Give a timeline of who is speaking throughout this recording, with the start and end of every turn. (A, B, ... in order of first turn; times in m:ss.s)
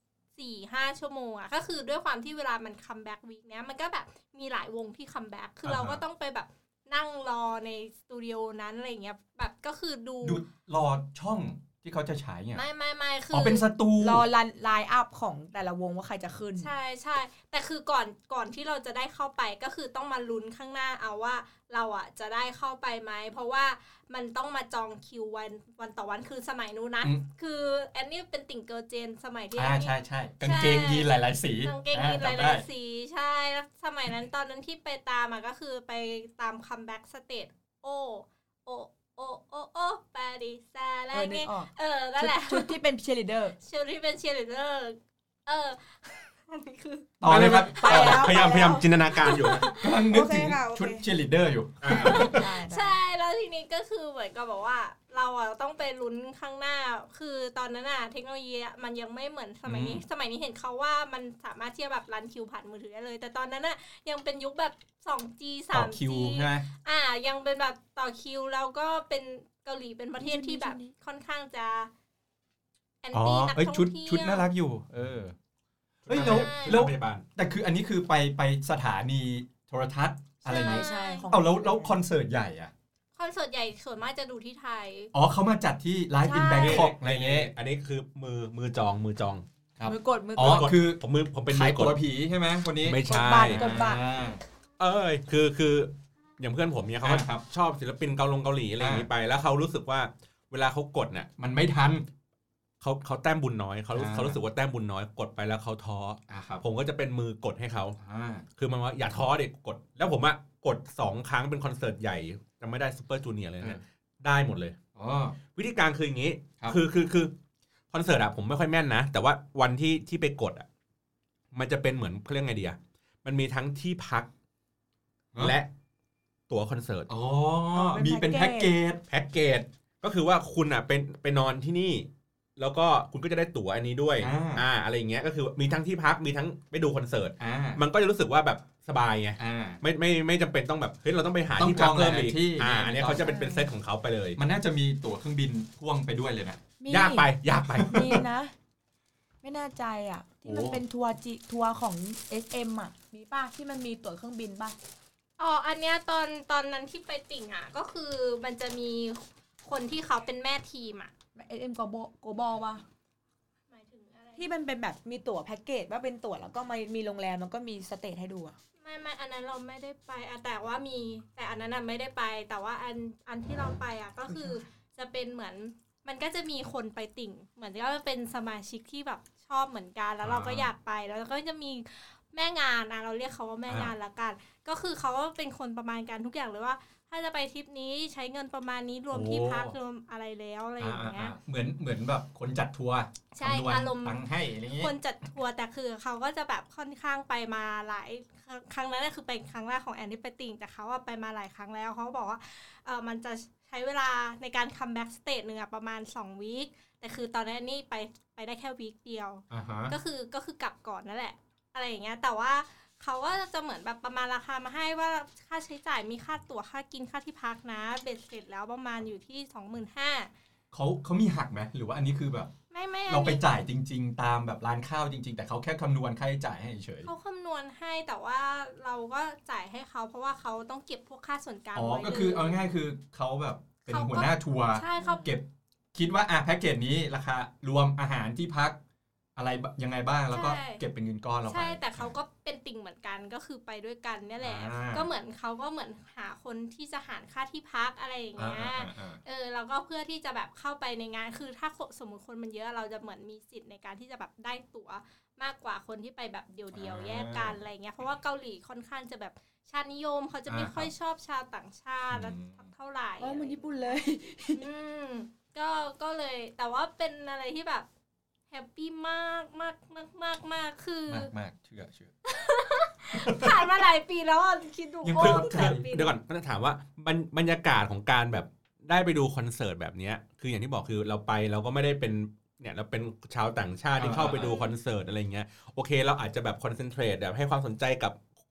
0:00.4-0:10.4 A
0:05.6-0:06.0 B
0:10.2-0:12.6 B
0:12.5-0:13.7 A
0:13.3-0:14.2 B
0:14.0-0:16.7 C
0:16.6-0:42.8 A
0:29.6-0:32.6 B
0:41.1-0:43.6 C
0:43.6-0:47.2 A
0:47.2-0:48.3 B
0:47.2-0:49.7 D
0:47.3-0:51.1 C
0:48.0-0:48.5 A
0:49.2-0:50.1 A
0:49.8-0:52.4 B
0:51.8-0:52.3 D
0:51.9-1:11.9 A
0:52.0-0:53.0 C
0:59.6-1:00.0 B
1:05.7-1:06.6 B
1:10.2-1:10.9 C
1:13.0-1:14.5 A
1:13.1-1:15.3 B
1:16.0-1:17.2 D
1:16.1-1:22.7 B
1:16.1-1:16.8 A
1:20.4-1:22.0 C
1:20.5-1:21.3 A
1:23.2-1:25.1 A
1:25.1-1:27.5 B
1:26.2-1:26.9 C
1:26.5-1:29.4 D
1:29.8-1:34.4 B
1:29.8-1:30.7 C
1:30.4-1:32.0 D
1:32.8-1:33.7 D
1:33.0-1:34.0 C
1:34.8-1:41.3 D
1:37.0-1:37.4 B
1:38.8-1:39.1 B
1:41.4-1:42.0 B
1:42.8-1:48.0 D
1:43.9-1:44.4 B
1:46.3-1:46.6 B
1:48.0-1:48.4 B
1:48.6-1:54.8 D
1:54.9-1:55.4 B
1:55.5-1:57.3 D
1:57.9-2:00.6 D
2:01.5-2:04.3 D
2:05.4-2:05.7 D
2:06.5-2:07.1 D
2:07.1-2:09.0 B
2:07.7-2:08.7 C
2:09.1-2:24.4 D
2:14.2-2:14.6 B
2:17.4-2:17.8 B
2:19.4-2:19.8 B
2:21.6-2:23.3 B
2:23.1-2:23.7 C
2:24.4-2:26.6 B
2:26.8-2:28.5 C
2:26.9-2:28.0 D
2:29.4-2:34.8 C
2:30.4-2:30.8 B
2:35.4-2:41.1 A
2:41.4-2:42.8 C
2:43.7-2:44.5 A
2:44.4-2:48.5 C
2:48.8-3:11.4 A
3:00.2-3:00.7 B
3:03.7-3:03.9 B
3:09.1-3:09.7 B
3:10.8-3:14.9 B
3:13.3-3:40.3 A
3:29.5-3:29.9 B
3:40.7-3:42.5 B
3:42.7-3:43.4 A
3:43.1-3:47.1 B
3:47.0-3:52.6 A
3:51.7-3:58.8 B
3:53.9-3:55.4 A
3:59.4-4:02.1 B
4:00.3-4:00.8 A
4:01.5-4:24.0 A
4:04.4-4:05.1 B
4:08.4-4:09.2 B
4:16.7-4:17.6 B
4:20.5-4:20.9 B
4:22.1-4:22.6 B
4:23.2-4:24.6 C
4:24.5-4:27.8 A
4:28.5-4:31.3 A
4:31.1-4:32.1 B
4:32.2-4:36.2 A
4:33.1-4:33.7 B
4:35.0-4:35.8 B
4:35.2-4:48.2 D
4:44.0-4:44.5 B
4:44.1-4:44.8 A